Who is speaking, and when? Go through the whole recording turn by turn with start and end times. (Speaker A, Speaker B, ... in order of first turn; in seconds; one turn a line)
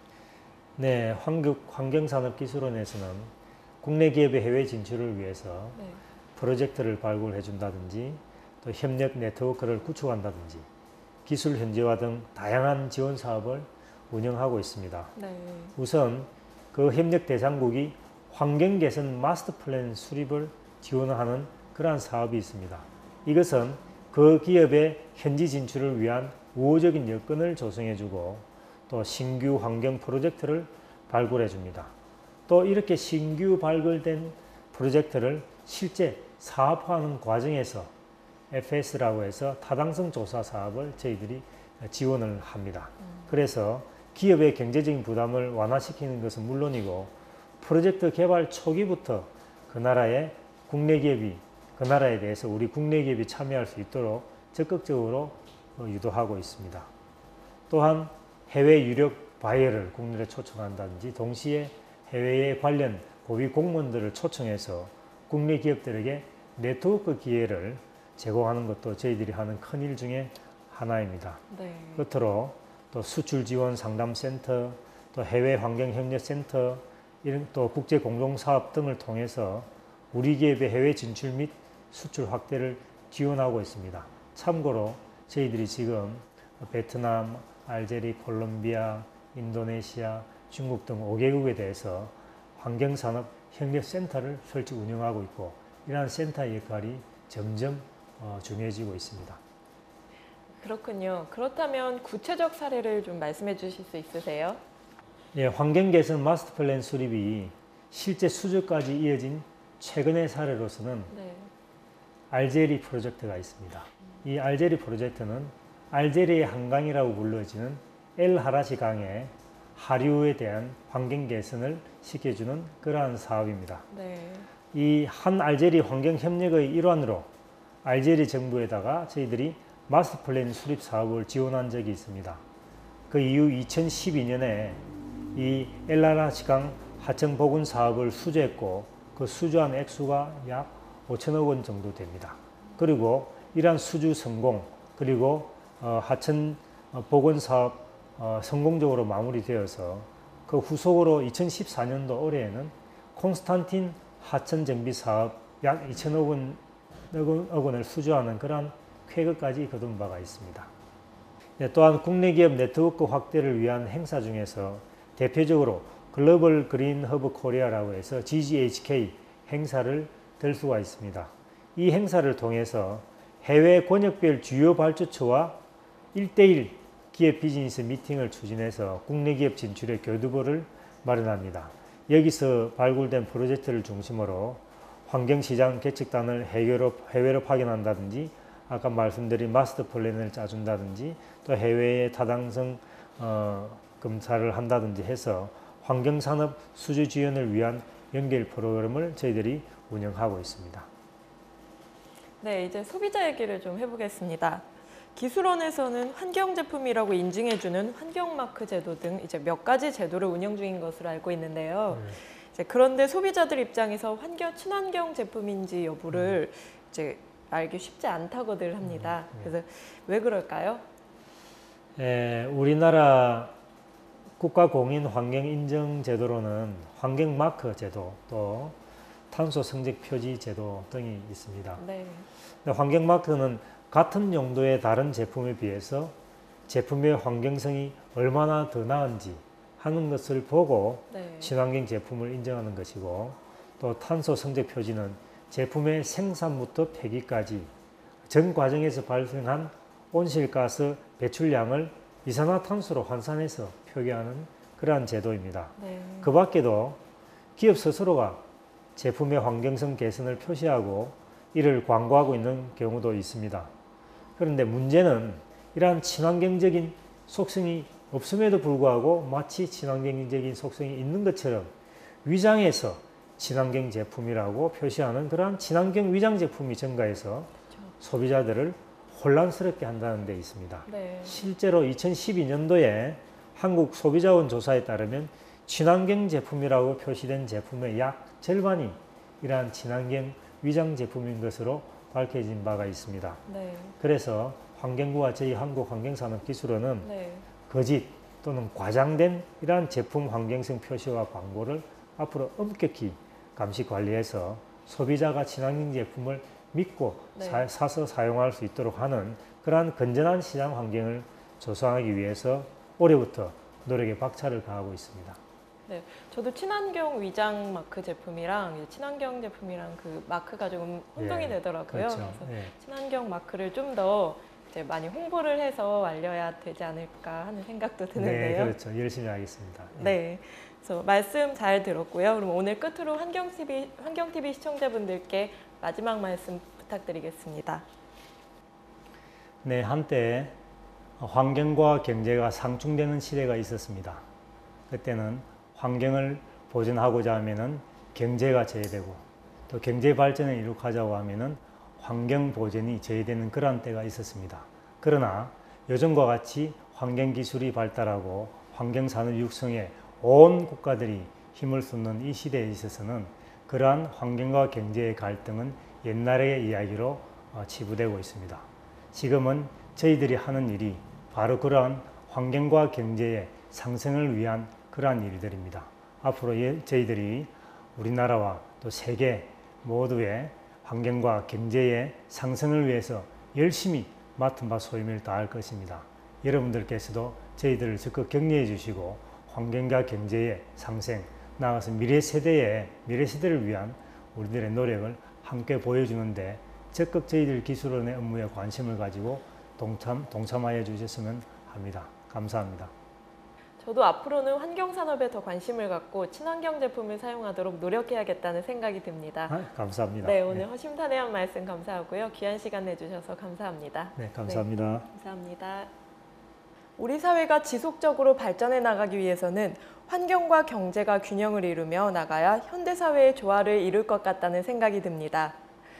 Speaker A: 0.8-5.8
Speaker B: 5.7-6.0
Speaker A: 6.3-10.7
Speaker A: 11.2-15.1
Speaker B: 15.1-15.7
Speaker A: 15.7-31.9
Speaker A: 32.5-37.9
Speaker A: 38.5-56.9
Speaker A: 57.7-71.4
Speaker B: 71.5-72.0
Speaker A: 72.0-99.4
Speaker B: 100.6-104.6
Speaker A: 105.3-111.1
Speaker B: 111.1-111.5
Speaker A: 112.3-123.8
Speaker B: 123.9-124.5
Speaker A: 124.7-127.3
Speaker A: 127.8-132.4
Speaker A: 133.1-134.8
Speaker A: 135.3-160.7
Speaker A: 161.6-175.6
Speaker A: 176.1-200.9
Speaker B: 202.4-220.8
Speaker A: 211.9-212.2
Speaker A: 216.1-216.4
Speaker A: 218.8-219.5
Speaker A: 222.0-223.5
Speaker A: 224.4-228.8
Speaker A: 229.3-231.8
Speaker B: 231.8-232.3
Speaker A: 232.6-236.1
Speaker A: 236.7-247.7
Speaker B: 241.1-241.5
Speaker A: 248.3-257.0
Speaker B: 255.8-256.3
Speaker A: 257.6-258.4
Speaker A: 258.9-263.7
Speaker A: 264.4-271.7
Speaker A: 272.2-293.4
Speaker B: 280.9-281.4
Speaker B: 293.4-293.9
Speaker A: 294.0-297.1
Speaker B: 297.0-297.5
Speaker A: 297.7-315.4
Speaker B: 307.3-307.6
Speaker B: 315.9-328.8
Speaker A: 321.2-322.7
Speaker A: 328.1-330.1
Speaker B: 330.0-337.8
Speaker A: 339.6-340.6
Speaker A: 341.2-344.2
Speaker A: 344.9-402.9
Speaker B: 403.8-409.6
Speaker A: 409.5-410.6
Speaker B: 410.2-415.9
Speaker A: 414.1-415.1
Speaker B: 417.0-425.6